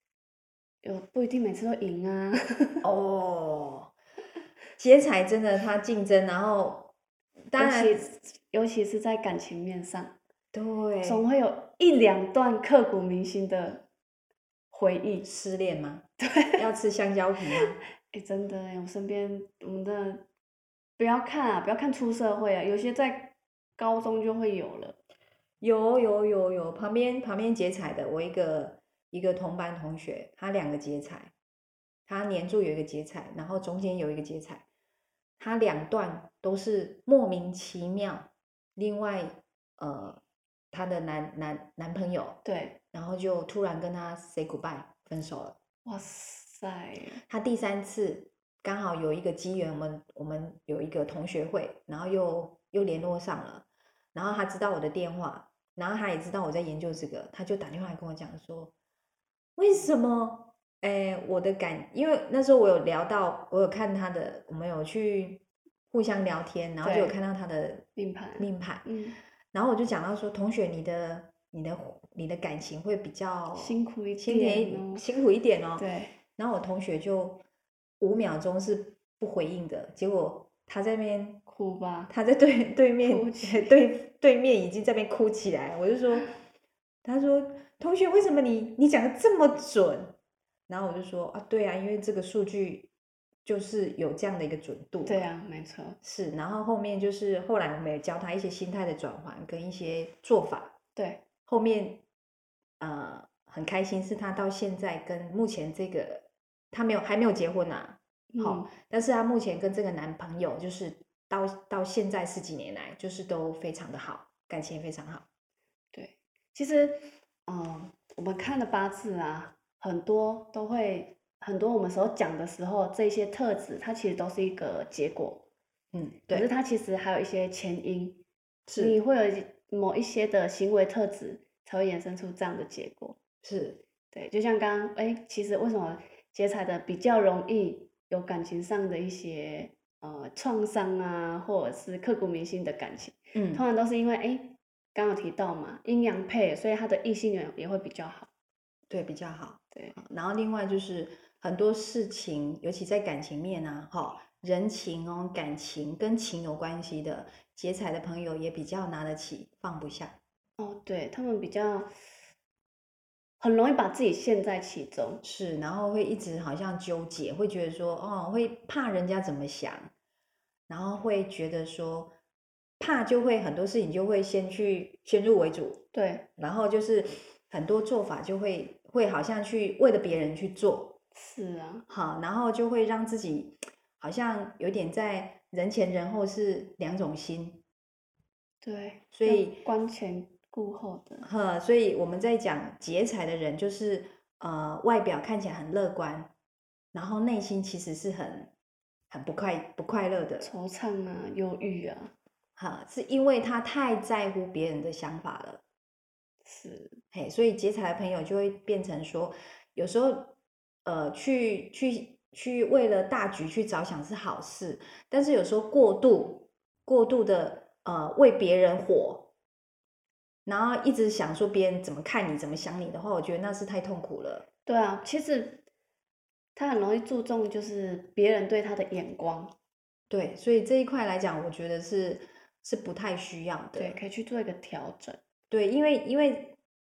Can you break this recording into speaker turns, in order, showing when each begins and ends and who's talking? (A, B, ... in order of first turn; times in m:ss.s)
0:00.8-0:02.8 A
0:02.8-0:03.9 B
0:04.8-0:06.9 B
0:07.5-0:08.0 B
0:07.6-0:10.2 A
0:10.5-0:11.2 B
0:11.0-0:13.8 A
0:14.7-0:15.3 A
0:15.2-0:17.8 B
0:16.2-0:16.6 A
0:18.1-0:20.2 A
0:21.0-0:25.0 A
0:25.6-0:31.3 B
0:32.1-0:34.6 B
0:35.4-0:40.2 B
0:40.7-0:42.4 B
0:42.4-0:42.8 A
0:42.9-0:45.6 B
0:45.8-0:47.2 A
0:47.2-0:58.7 B
0:59.6-1:07.9 B
1:06.8-1:07.2 A
1:08.0-1:09.2 A
1:08.4-1:08.9 B
1:09.5-1:15.9 B
1:13.5-1:15.0 A
1:15.8-1:16.1 A
1:16.4-1:17.4 B
1:18.0-1:21.4 B
1:21.5-1:22.1 A
1:22.1-1:26.3 B
1:23.0-1:23.8 A
1:27.0-1:30.2 B
1:30.7-1:32.9 B
1:33.4-1:35.2 B
1:35.0-1:36.0 A
1:36.0-1:40.8 B
1:41.0-1:41.2 A
1:41.5-1:42.0 B
1:42.8-1:55.2 B
1:48.3-1:48.7 A
1:55.9-2:05.4 A
2:05.9-2:06.5 B
2:06.3-2:08.2 A
2:08.7-2:09.0 B
2:08.8-2:13.2 A
2:13.4-2:13.8 B
2:14.1-2:28.3 A
2:23.3-2:23.6 B
2:28.9-2:40.2 B
2:40.6-2:41.9 A
2:43.4-2:45.2 A
2:45.2-2:49.9 B
2:50.7-2:52.1 B
2:52.8-2:55.8 B
2:55.9-2:56.2 A
2:56.4-3:01.0 B
3:01.1-3:01.9 A
3:01.9-3:07.6 B
3:08.6-3:11.3 A
3:09.1-3:09.6 B
3:11.2-3:16.3 B
3:16.9-3:18.5 B
3:19.1-3:20.5 B
3:20.4-3:22.1 A
3:22.6-3:25.6 B
3:26.4-3:27.0 A
3:27.1-3:39.3 B
3:40.4-3:44.4 B
3:44.6-3:45.6 A
3:46.5-3:49.5 A
3:50.1-3:54.0 B
3:53.8-3:55.2 A
3:55.5-3:56.6 B